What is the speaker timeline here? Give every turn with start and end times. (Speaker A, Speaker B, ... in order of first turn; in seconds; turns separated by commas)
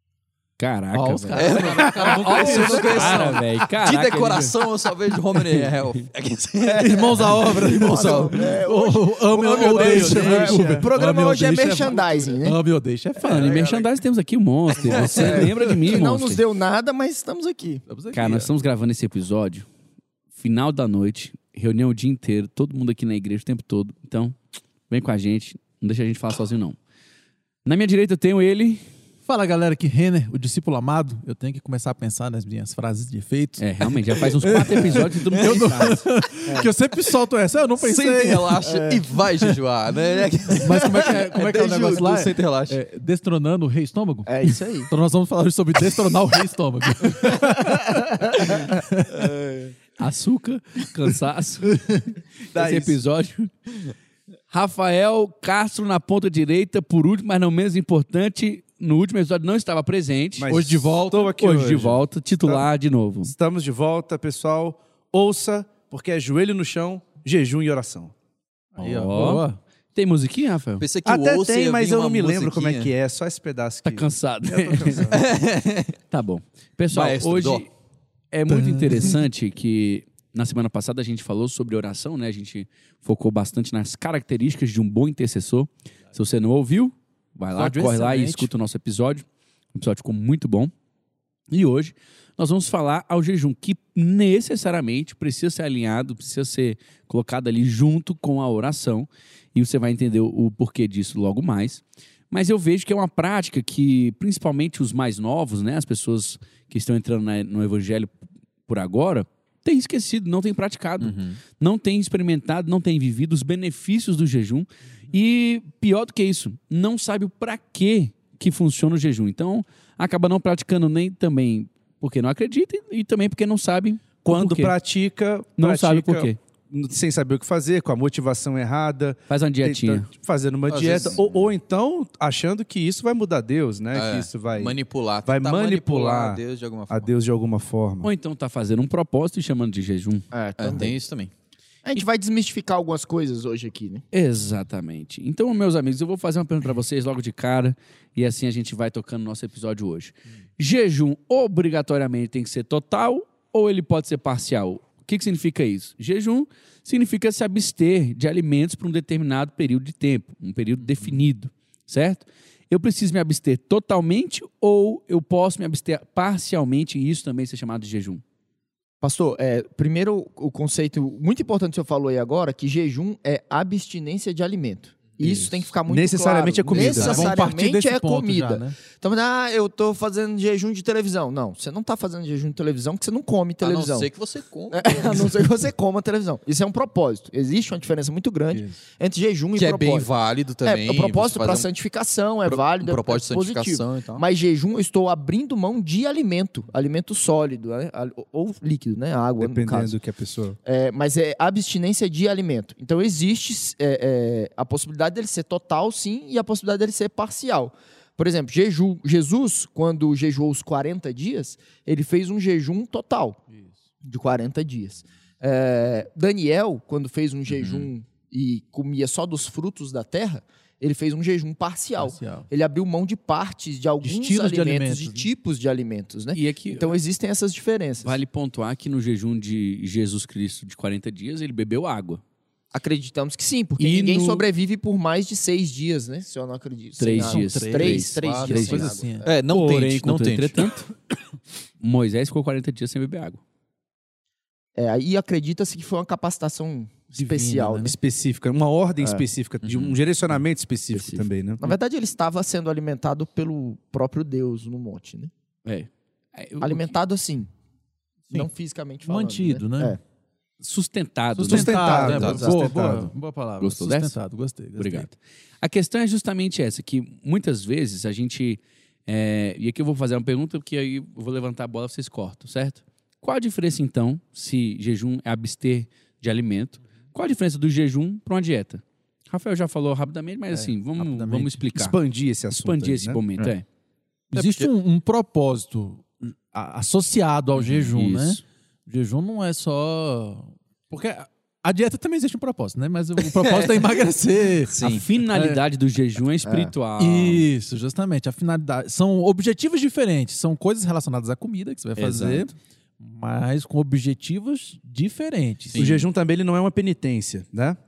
Speaker A: 0.6-1.5, Speaker B: 0.9-3.4, Speaker C: 1.3-8.6, Speaker D: 2.0-3.3, Speaker A: 2.5-4.6, Speaker B: 6.7-13.7, Speaker D: 7.4-12.6, Speaker E: 9.4-10.9, Speaker A: 13.2-16.4, Speaker D: 14.8-17.9, Speaker B: 17.9-18.5, Speaker A: 18.1-19.6, Speaker A: 20.4-24.4, Speaker A: 24.9-26.8, Speaker A: 27.6-28.8, Speaker B: 29.3-38.7, Speaker A: 33.6-36.1, Speaker C: 37.8-42.8, Speaker D: 38.6-39.0, Speaker B: 40.6-49.3, Speaker D: 44.3-44.9, Speaker D: 47.7-48.6, Speaker A: 50.0-52.0, Speaker A: 52.5-53.5, Speaker E: 52.5-53.0, Speaker A: 54.5-60.5, Speaker E: 60.4-62.7, Speaker B: 60.5-61.4, Speaker A: 61.4-63.3, Speaker E: 63.2-68.1, Speaker B: 68.8-69.6, Speaker A: 68.8-70.8, Speaker C: 70.8-72.9, Speaker E: 71.0-75.2, Speaker A: 73.8-75.2, Speaker C: 75.1-76.0, Speaker A: 76.1-77.7, Speaker C: 76.9-77.7, Speaker A: 78.3-90.7, Speaker B: 78.5-79.2, Speaker B: 87.5-88.5, Speaker A: 91.5-108.1, Speaker A: 108.7-124.8, Speaker C: 111.0-111.4, Speaker E: 124.2-138.1, Speaker A: 125.6-126.4, Speaker A: 129.3-130.1, Speaker C: 130.7-131.5, Speaker C: 133.9-137.1, Speaker A: 138.0-140.3, Speaker D: 140.3-141.0, Speaker C: 140.6-141.3, Speaker D: 141.9-144.0, Speaker A: 144.1-168.2, Speaker D: 169.0-184.1, Speaker E: 175.9-177.4, Speaker B: 176.7-178.8, Speaker C: 183.6-185.4, Speaker D: 184.7-190.1, Speaker B: 188.5-188.8, Speaker C: 189.6-191.7, Speaker D: 190.6-200.0, Speaker C: 192.4-194.2, Speaker E: 199.4-200.6, Speaker D: 200.7-213.4, Speaker D: 214.0-228.2, Speaker C: 217.5-217.9, Speaker B: 222.0-222.5, Speaker B: 224.0-225.3, Speaker A: 226.3-227.0, Speaker A: 228.0-232.2, Speaker D: 232.7-239.2, Speaker A: 233.8-234.5, Speaker A: 237.0-240.9, Speaker B: 237.2-239.3, Speaker C: 239.2-240.7, Speaker A: 241.8-243.4, Speaker D: 244.8-247.9, Speaker B: 247.1-248.0, Speaker E: 247.8-251.6, Speaker C: 249.6-250.0, Speaker A: 250.9-251.3, Speaker D: 251.6-255.3, Speaker A: 255.7-256.9, Speaker D: 256.6-257.5, Speaker D: 258.3-260.0, Speaker B: 259.1-260.0, Speaker A: 260.6-262.0, Speaker B: 261.3-265.1, Speaker E: 261.5-263.1, Speaker D: 261.6-262.8, Speaker C: 262.1-262.5, Speaker A: 263.6-264.2, Speaker A: 264.8-282.0, Speaker B: 280.5-281.6, Speaker E: 281.8-283.2, Speaker A: 282.6-283.6, Speaker B: 284.3-295.6, Speaker C: 284.3-284.7, Speaker A: 287.6-288.4, Speaker C: 293.3-293.9, Speaker A: 294.7-297.5, Speaker D: 296.5-296.7, Speaker B: 297.0-305.9, Speaker A: 302.0-302.5, Speaker C: 305.7-306.1, Speaker E: 305.8-307.8